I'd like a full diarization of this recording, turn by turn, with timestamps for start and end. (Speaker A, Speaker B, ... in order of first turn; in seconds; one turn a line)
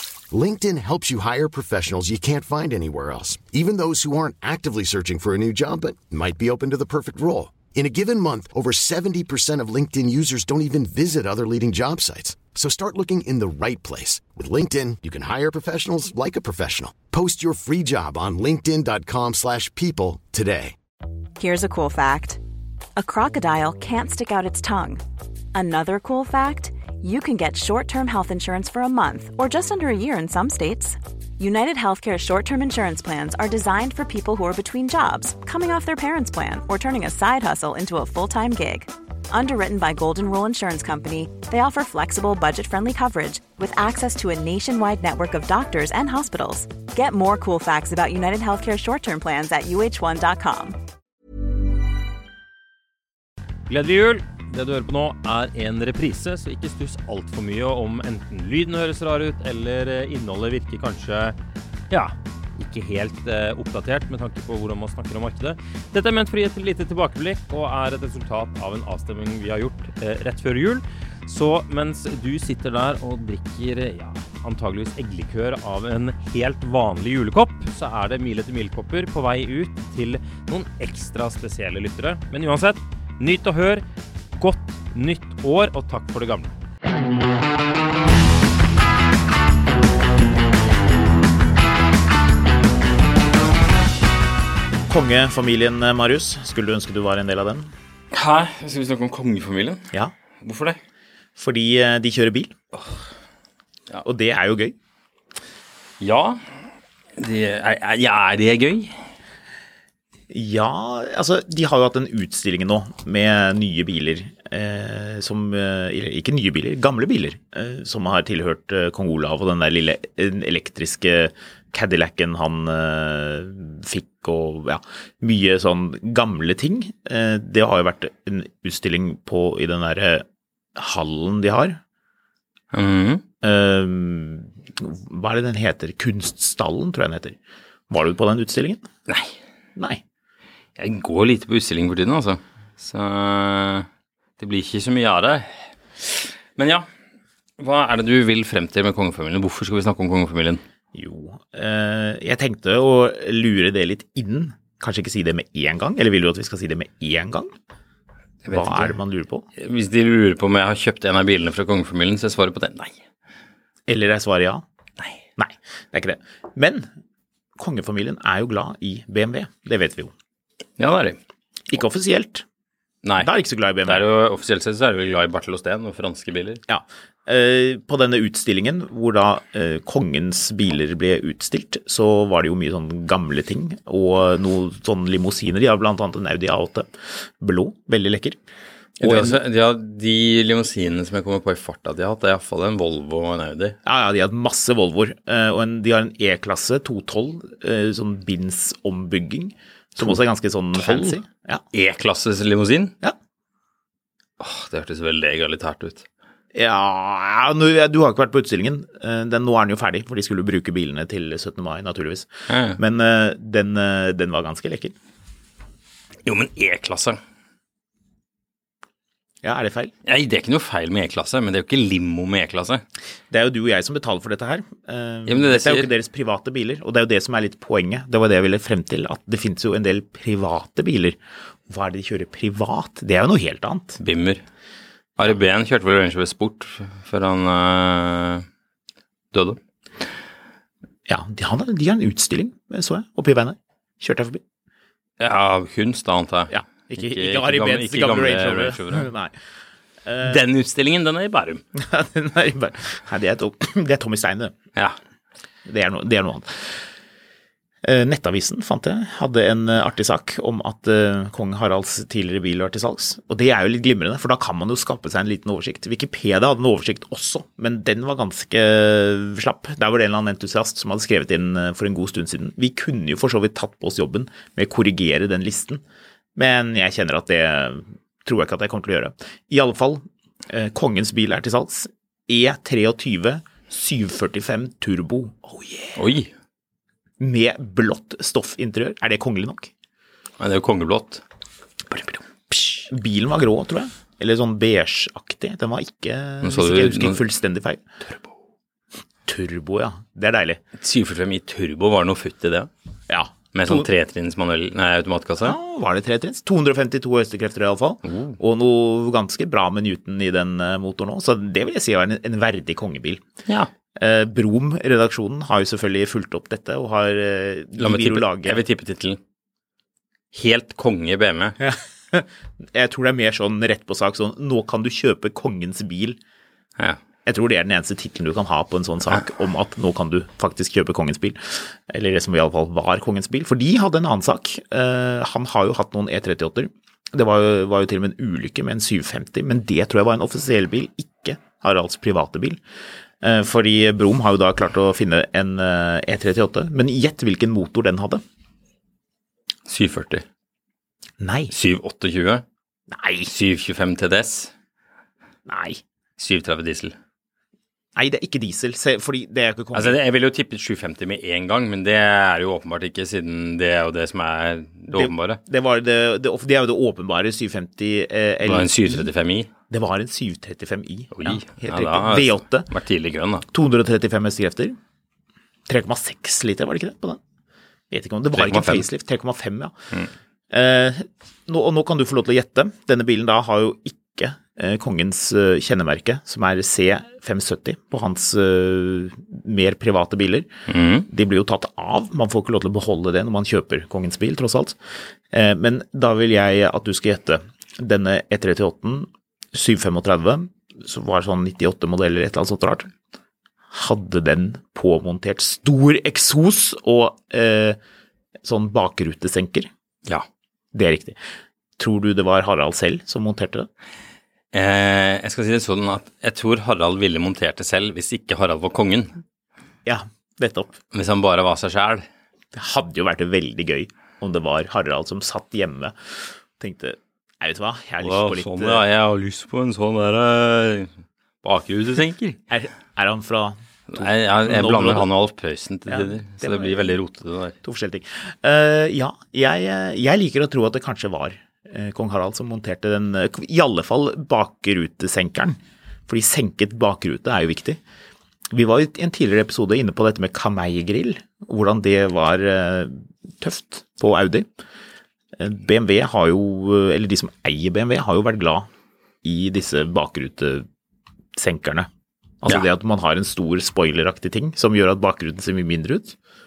Speaker A: 0.3-20.8
Speaker B: 21.4-22.4
Speaker B: 23.0-25.0
Speaker B: 25.5-50.8
Speaker C: 53.7-61.4
Speaker C: 61.9-83.8
Speaker C: 84.4-86.5
Speaker D: 94.9-97.7
Speaker E: 98.1-99.9
Speaker E: 100.4-100.8
Speaker D: 101.4-102.5
Speaker D: 104.0-104.8
Speaker E: 106.0-106.4
Speaker E: 107.2-109.1
Speaker D: 110.3-130.3
Speaker D: 130.8-131.8
Speaker E: 132.7-133.2
Speaker D: 133.4-137.4
Speaker D: 137.9-138.8
Speaker E: 139.1-139.4
Speaker E: 140.8-143.9
Speaker E: 144.4-146.9
Speaker E: 147.6-150.6
Speaker D: 150.9-157.5
Speaker E: 158.5-159.0
Speaker D: 158.5-159.4
Speaker E: 159.6-163.0
Speaker D: 163.9-164.6
Speaker D: 165.4-166.9
Speaker D: 167.6-170.1
Speaker E: 170.8-171.2
Speaker D: 171.7-172.4
Speaker E: 173.0-173.3
Speaker D: 173.2-174.0
Speaker E: 173.8-176.6
Speaker D: 176.7-188.4
Speaker D: 189.0-189.4
Speaker E: 189.0-193.8
Speaker D: 193.8-201.6
Speaker E: 200.8-201.2
Speaker E: 201.7-202.9
Speaker E: 204.4-206.1
Speaker D: 206.5-214.9
Speaker E: 212.5-212.8
Speaker E: 216.3-217.2
Speaker D: 219.4-219.9
Speaker E: 220.1-222.8
Speaker D: 223.3-231.2
Speaker E: 225.3-225.9
Speaker D: 231.7-234.0
Speaker E: 234.0-234.4
Speaker E: 235.2-238.5
Speaker E: 239.3-239.6
Speaker D: 241.1-244.4
Speaker E: 245.2-249.1
Speaker D: 246.5-249.3
Speaker D: 250.1-250.4
Speaker E: 250.2-251.6
Speaker D: 251.8-254.5
Speaker D: 255.7-256.9
Speaker D: 257.8-275.8
Speaker D: 276.4-286.0
Speaker E: 286.0-286.3
Speaker D: 287.2-289.7
Speaker E: 290.4-291.2
Speaker E: 291.9-292.8
Speaker D: 292.8-297.9
Speaker E: 296.4-297.2
Speaker D: 299.3-300.6
Speaker E: 300.8-302.7
Speaker D: 303.1-303.9
Speaker E: 303.6-305.6
Speaker D: 305.4-313.2
Speaker E: 308.1-308.4
Speaker D: 314.0-318.6
Speaker E: 317.8-319.2
Speaker E: 320.3-321.6
Speaker D: 321.6-326.2
Speaker D: 327.3-342.6
Speaker D: 343.2-348.2
Speaker E: 349.7-350.2
Speaker D: 351.2-351.5
Speaker E: 351.5-352.4
Speaker D: 352.9-353.3
Speaker E: 353.3-354.5
Speaker D: 355.5-355.8
Speaker E: 356.2-357.0
Speaker D: 358.0-360.0
Speaker E: 359.7-365.4
Speaker D: 364.9-369.1
Speaker E: 368.4-369.5
Speaker D: 369.7-372.7
Speaker E: 371.1-373.4
Speaker D: 373.5-374.8
Speaker D: 375.7-377.2
Speaker D: 377.9-379.7
Speaker E: 378.3-378.9
Speaker D: 380.5-390.5
Speaker E: 390.7-391.1
Speaker D: 391.1-394.8
Speaker D: 395.3-402.9
Speaker D: 403.7-407.8
Speaker D: 408.4-409.7
Speaker D: 410.7-411.2
Speaker D: 411.8-413.7
Speaker E: 414.5-419.2
Speaker D: 419.9-420.8
Speaker E: 420.9-422.1
Speaker D: 422.6-428.8
Speaker E: 428.0-432.4
Speaker D: 432.5-435.1
Speaker E: 433.9-437.6
Speaker D: 435.9-436.9
Speaker D: 437.6-447.8
Speaker D: 448.5-454.5
Speaker D: 455.4-458.7
Speaker D: 459.2-460.7
Speaker D: 461.4-461.9
Speaker D: 462.4-466.1